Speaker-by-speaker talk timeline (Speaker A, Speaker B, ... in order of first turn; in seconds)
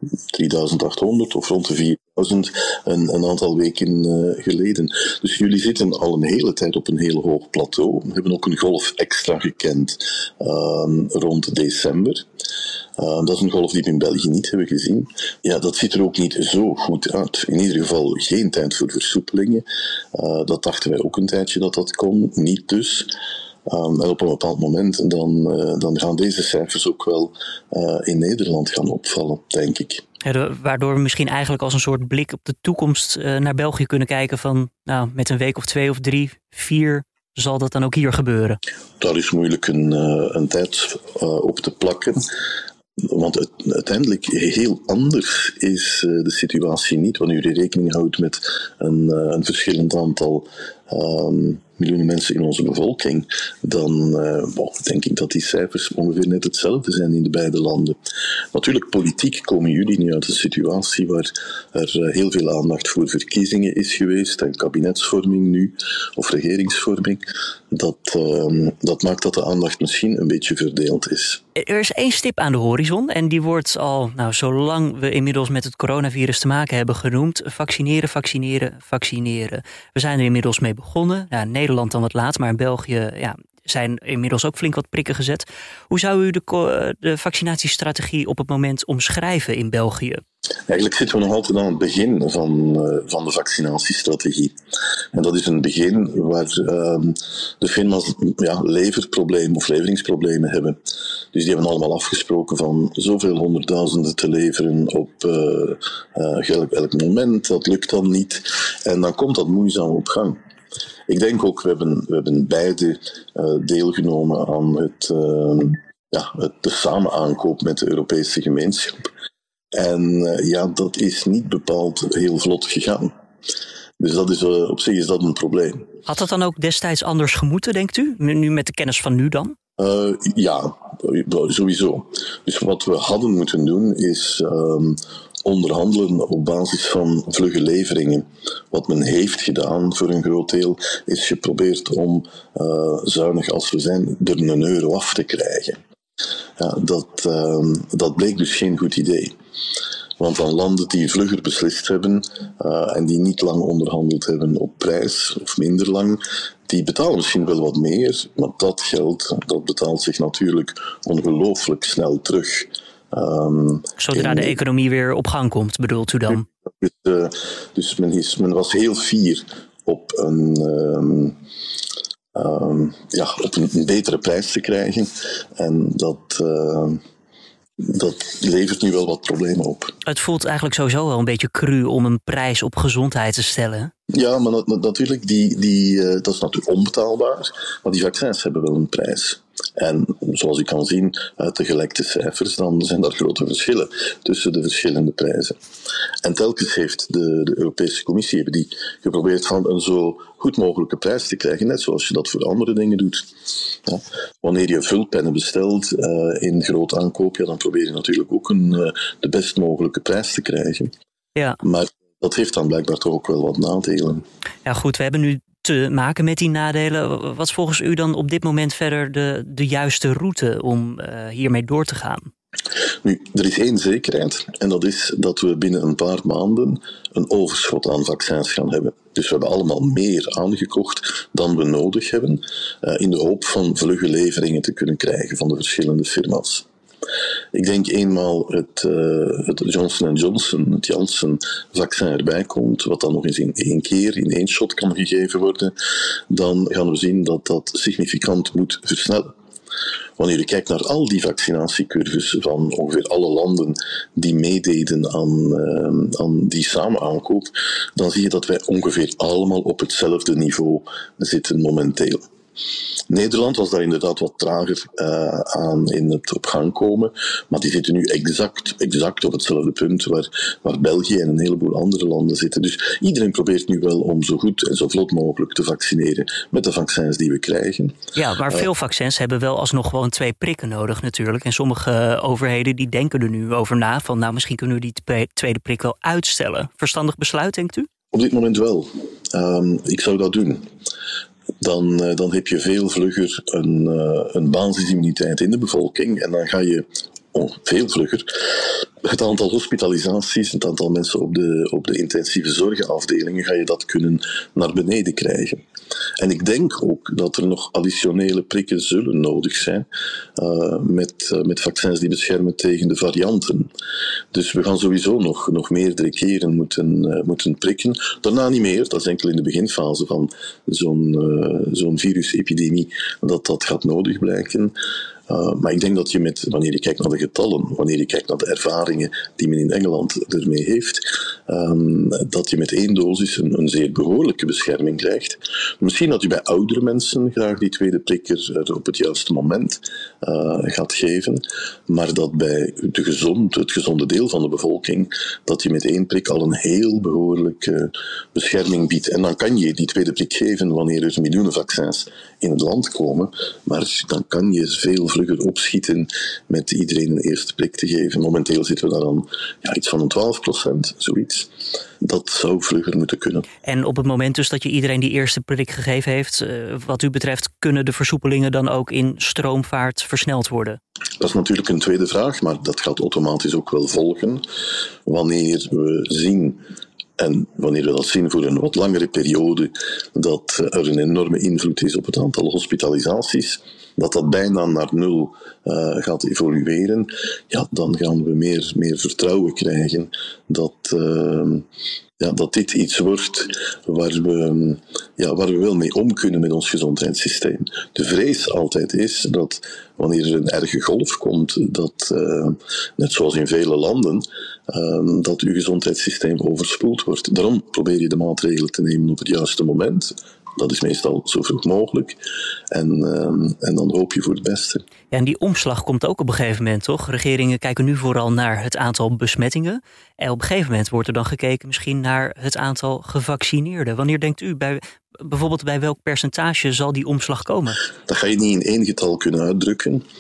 Speaker A: 0.3-12.2, 13.0-23.1, 23.7-30.0, 39.0-42.3, 43.0-58.0, 58.5-71.4, 90.7-94.5, 95.1-100.8, 101.3-110.4, 111.1-119.0, 119.8-123.1, 124.0-125.9, 129.8-145.8, 146.6-149.3, 150.2-164.6, 166.3-171.4, 172.3-177.0, 177.8-179.9, 184.1-195.6, 196.2-210.9, 211.6-214.2, 223.0-236.7, 237.5-245.7, 246.3-249.3, 250.2-262.2, 263.1-278.0, 288.1-290.6, 291.6-305.6, 306.2-313.7, 314.3-324.8, 325.3-363.5, 371.2-374.4, 375.1-376.6, 377.2-391.6, 392.2-412.2, 412.7-414.8, 428.0-430.0
Speaker B: 30.2-38.6, 71.6-90.2, 126.1-129.6, 164.0-166.4, 180.1-183.9, 211.3-211.6, 214.7-222.3, 278.1-287.9, 363.6-370.8, 415.1-427.8